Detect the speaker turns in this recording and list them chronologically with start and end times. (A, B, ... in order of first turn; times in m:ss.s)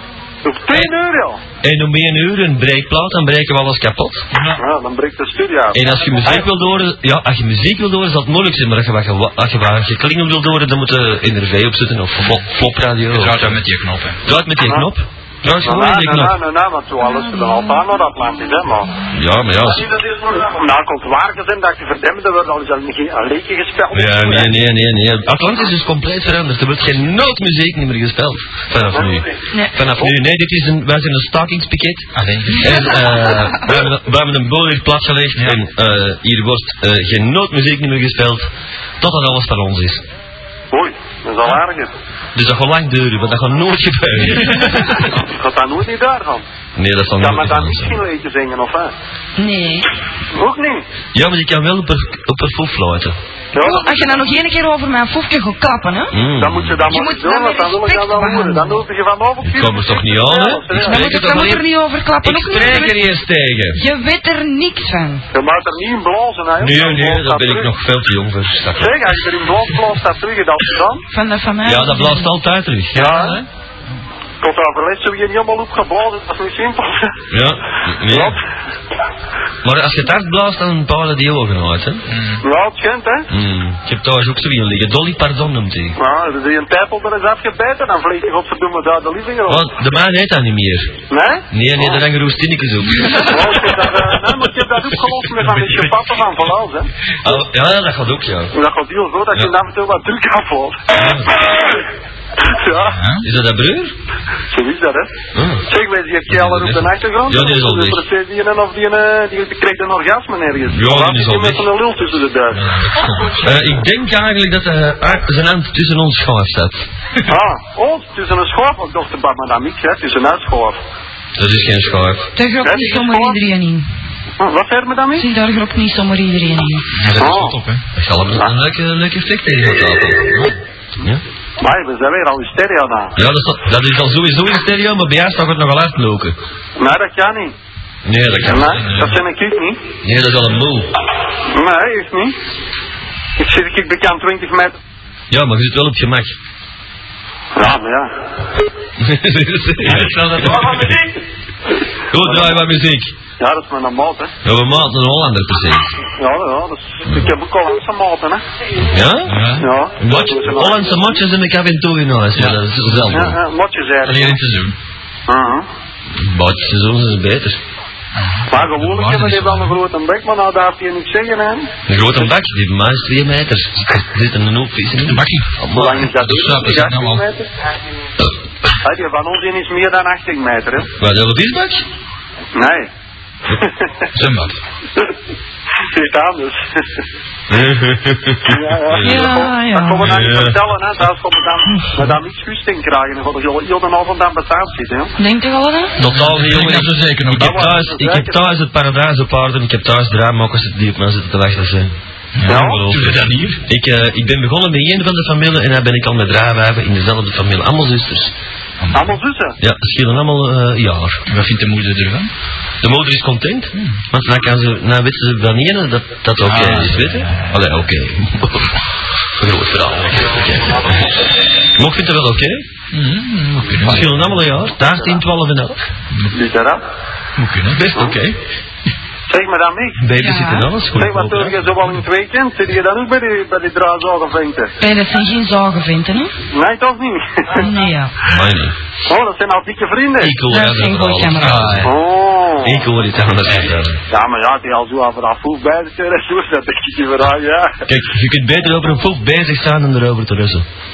0:00.4-0:01.4 A
0:01.6-0:04.3 B
0:04.3-0:04.6 C
0:04.6-0:06.5 A
0:05.7-0:13.6 B
0:13.1-0:14.2 C
0:14.2-0:16.4 B
0:15.6-0:18.9 A
0:17.0-0:17.9 D
0:19.1-0:19.9 B
0:19.7-0:24.5 A
0:23.9-0:38.5 B
0:28.9-0:29.2 A
0:29.5-0:29.8 D
0:32.2-0:33.0 C
0:39.0-0:40.0 B
0:40.7-0:41.9 A
0:42.4-0:45.1 B
0:45.0-0:46.4 A
0:46.8-0:48.0 B
0:47.2-0:48.9 A
0:49.4-0:49.9 D
0:50.3-0:50.8 A
0:51.1-0:53.2 B
0:53.5-0:54.2 A
0:53.6-0:56.2 D
0:56.1-0:56.9 B
0:56.4-1:01.1 A
0:56.9-0:58.8 D
0:59.4-1:01.7 B
1:00.8-1:03.0 D
1:02.2-1:03.8 B
1:03.7-1:05.2 D
1:05.3-1:07.7 A
1:06.6-1:09.0 B
1:08.8-1:11.0 A
1:11.1-1:12.3 D
1:11.6-1:13.3 B
1:12.9-1:13.4 A
1:13.0-1:13.5 C
1:14.4-1:17.1 A
1:17.3-1:18.4 B
1:18.1-1:18.4 A
1:19.6-1:22.1 B
1:22.1-1:22.4 C
1:22.4-1:23.3 A
1:23.3-1:26.0 B
1:26.0-1:29.7 A
1:29.5-1:34.4 B
1:31.1-1:32.0 A
1:33.2-1:36.9 A
1:35.4-1:35.9 C
1:37.2-1:38.5 B
1:38.5-1:41.8 A
1:40.9-1:41.3 B
1:42.4-1:43.0 A
1:42.9-1:43.2 C
1:43.2-1:44.0 B
1:44.5-1:45.1 A
1:45.3-1:45.7 B
1:45.7-1:52.6 A
1:46.3-1:48.0 B
1:50.7-1:51.7 B
1:52.5-1:53.5 C
1:53.3-1:56.9 B
1:57.3-2:00.8 A
2:01.4-2:02.3 B
2:02.4-2:03.9 D
2:02.6-2:03.4 A
2:04.4-2:05.3 A
2:05.2-2:06.9 D
2:07.0-2:07.8 C
2:07.2-2:07.6 A
2:07.9-2:11.2 B
2:11.6-2:13.1 A
2:13.2-2:16.4 B
2:16.8-2:17.5 A
2:18.0-2:19.0 B
2:18.4-2:19.8 A
2:18.7-2:19.2 C
2:20.0-2:20.9 B
2:21.5-2:22.4 A
2:23.4-2:24.8 A
2:25.3-2:26.4 B
2:27.6-2:28.1 A
2:29.0-2:31.0 B
2:29.8-2:30.9 C
2:32.1-2:33.1 B
2:32.2-2:32.6 A
2:33.4-2:34.3 A
2:34.4-2:36.0 B
2:36.2-2:38.4 A
2:38.8-2:43.4 B
2:39.2-2:39.7 C
2:39.6-2:41.2 A
2:42.3-2:42.6 C
2:43.1-2:44.4 A
2:44.0-2:44.8 C
2:45.3-2:45.7 A
2:46.1-2:47.6 B
2:48.1-2:49.8 C
2:48.5-2:51.7 A
2:51.9-2:56.1 B
2:55.0-2:55.5 C
2:55.7-2:57.5 A
2:56.2-2:57.3 C
2:58.8-3:00.9 A
3:01.0-3:01.8 B
3:02.5-3:02.9 A
3:03.5-3:03.8 A
3:04.1-3:04.6 C
3:05.9-3:07.0 A
3:07.5-3:10.6 B
3:08.5-3:15.1 A
3:09.0-3:10.1 D
3:15.2-3:16.0 D
3:16.0-3:17.7 C
3:16.0-3:21.9 B
3:17.3-3:18.4 A
3:22.4-3:23.6 C
3:22.4-3:28.3 B
3:22.5-3:22.9 A
3:28.8-3:29.2 C
3:28.9-3:29.6 A
3:29.6-3:31.2 B
3:31.3-3:32.3 C
3:32.8-3:38.8 B
3:33.7-3:34.0 C
3:36.4-3:37.6 C
3:39.4-3:41.2 B
3:41.7-3:42.6 B
3:42.9-3:44.4 C
3:43.8-3:45.8 B
3:46.3-3:46.8 A
3:47.4-3:48.2 C
3:47.8-3:48.3 B
3:49.3-3:50.0 A
3:50.0-3:51.7 B
3:50.2-3:50.7 D
3:51.0-3:54.7 A
3:54.8-3:56.3 D
3:56.5-3:57.7 A
3:57.6-3:58.2 D
3:58.2-3:58.8 B
3:59.0-4:00.4 A
4:00.2-4:01.9 B
4:00.5-4:01.8 D
4:01.4-4:02.0 C
4:01.8-4:02.8 A
4:02.6-4:04.0 B
4:03.5-4:03.7 C
4:04.1-4:07.8 A
4:07.9-4:10.6 B